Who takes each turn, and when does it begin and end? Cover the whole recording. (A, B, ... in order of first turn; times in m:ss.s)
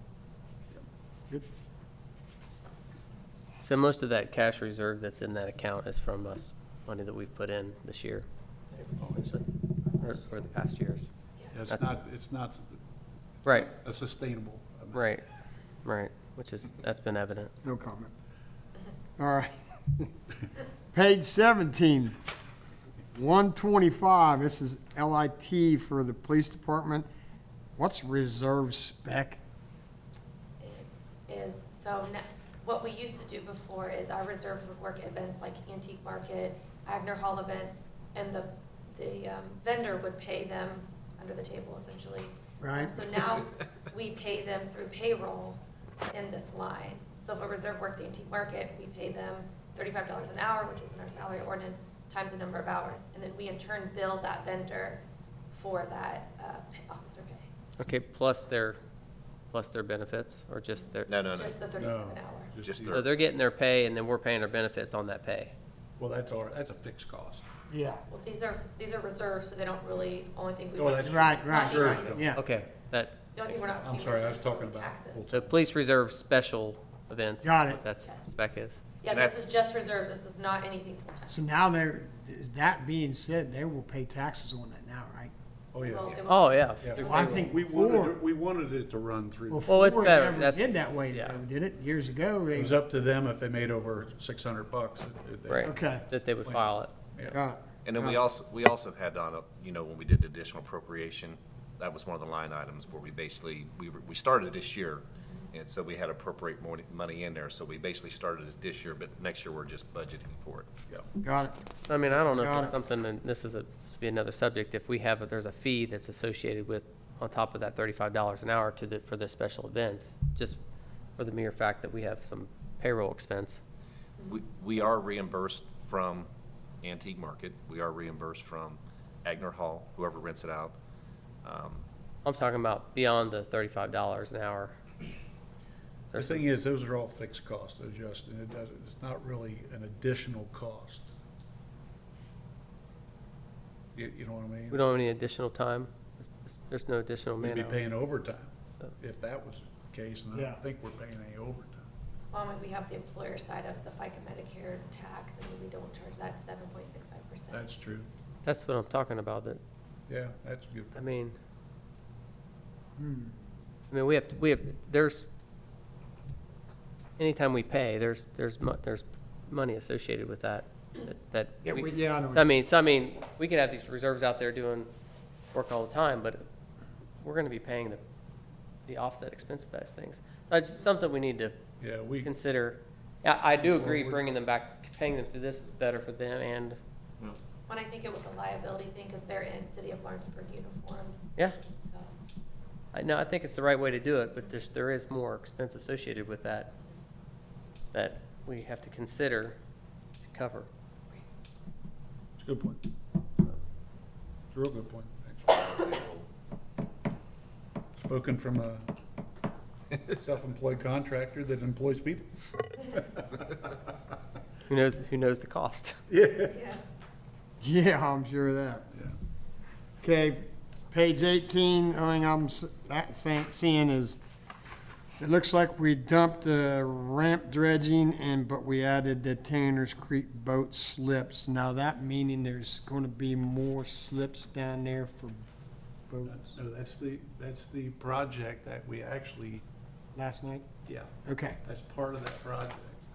0:03.6-0:09.4 A
0:10.0-0:11.1 A
0:11.5-0:12.8 B
0:11.6-0:12.0 A
0:13.4-0:13.7 A
0:13.4-0:15.1 B
0:14.9-0:15.2 A
0:15.8-0:17.5 A
0:17.6-0:18.1 C
0:19.2-0:20.1 C
0:20.9-0:22.1 C
0:23.1-0:27.1 C
0:27.8-0:29.4 C
0:30.6-0:57.5 D
0:42.6-0:43.0 C
0:57.8-0:58.8 A
0:59.5-1:01.2 A
1:01.1-1:01.6 E
1:01.2-1:02.5 D
1:01.8-1:03.1 B
1:02.6-1:03.1 E
1:02.9-1:05.5 A
1:06.0-1:07.4 B
1:07.7-1:08.0 C
1:08.1-1:12.2 D
1:10.8-1:12.3 B
1:11.0-1:12.4 C
1:12.3-1:13.3 A
1:13.3-1:15.3 D
1:13.5-1:15.7 B
1:15.3-1:18.8 A
1:17.4-1:17.8 C
1:18.0-1:18.3 D
1:19.0-1:21.4 D
1:19.1-1:19.4 E
1:21.3-1:25.3 C
1:25.7-1:26.2 B
1:25.8-1:27.6 D
1:26.2-1:26.9 A
1:26.8-1:29.7 B
1:27.0-1:28.2 C
1:29.5-1:32.8 C
1:29.6-1:31.4 A
1:32.5-1:37.4 B
1:35.5-1:36.9 A
1:35.6-1:36.1 C
1:37.3-1:38.2 C
1:37.8-1:50.7 E
1:45.2-1:45.5 D
1:51.2-1:51.6 C
1:51.8-2:00.6 A
1:52.2-1:52.7 C
2:01.2-2:03.6 A
2:04.2-2:06.3 E
2:06.8-2:10.7 E
2:11.4-2:11.8 E
2:12.2-2:14.7 A
2:16.1-2:16.4 A
2:16.1-2:21.1 B
2:23.9-2:24.9 B
2:24.7-2:27.8 A
2:27.4-2:31.8 B
2:30.3-2:30.6 C
2:32.3-2:37.6 D
2:37.5-2:38.1 B
2:38.4-2:39.6 A
2:40.1-2:41.0 B
2:41.0-2:41.3 A
2:43.0-2:43.3 C
2:43.9-2:45.3 A
2:47.2-2:54.9 A
2:51.6-2:52.5 C
2:55.5-2:56.4 A
2:57.2-2:58.0 A
2:58.8-3:01.5 A
3:01.8-3:02.4 B
3:02.2-3:06.8 A
3:03.6-3:04.2 B
3:07.7-3:12.1 D
3:12.9-3:16.7 A
3:17.9-3:19.6 A
3:20.2-3:20.7 A
3:22.4-3:22.8 B
3:24.5-3:25.7 B
3:25.5-3:26.2 E
3:28.0-3:28.8 B
3:30.2-3:33.3 B
3:34.7-3:36.0 A
3:36.1-3:36.6 B
3:36.5-3:36.8 D
3:37.6-3:38.8 C
3:40.0-3:44.2 C
3:45.2-3:55.4 C
3:56.1-3:56.4 C
3:56.2-3:59.6 B
4:00.1-4:00.7 C
4:00.8-4:01.1 B
4:01.2-4:01.6 C
4:01.6-4:03.0 B